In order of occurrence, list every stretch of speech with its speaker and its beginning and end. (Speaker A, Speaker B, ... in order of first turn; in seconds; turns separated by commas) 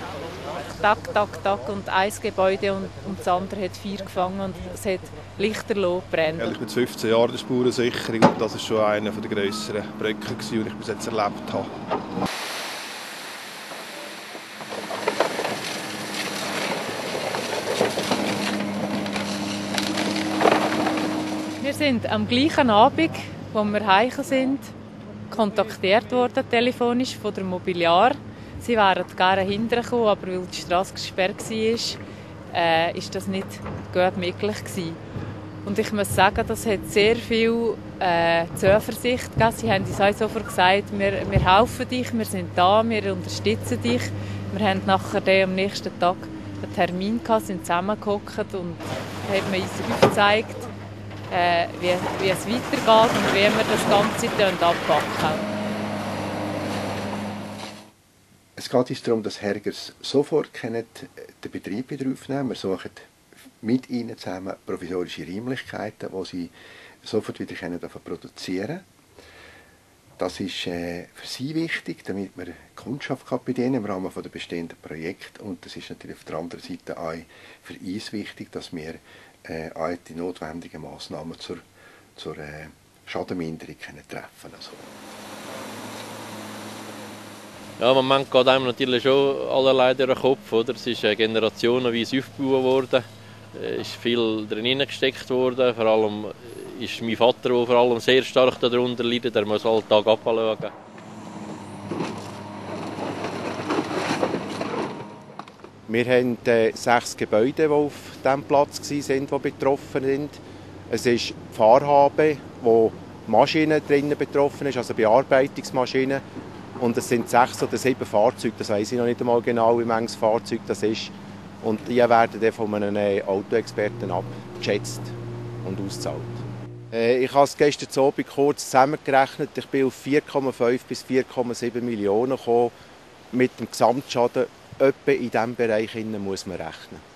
Speaker A: 0.7-6.5, Speaker B: 6.4-11.7, Speaker A: 21.6-24.7, Speaker A: 25.3-32.0, Speaker A: 32.5-35.0, Speaker A: 35.6-50.7, Speaker A: 51.3-55.5, Speaker C: 58.6-68.8, Speaker C: 70.2-81.6, Speaker C: 82.2-84.9, Speaker D: 87.8-100.7, Speaker E: 105.9-116.2, Speaker E: 116.8-132.7, Speaker E: 133.3-137.0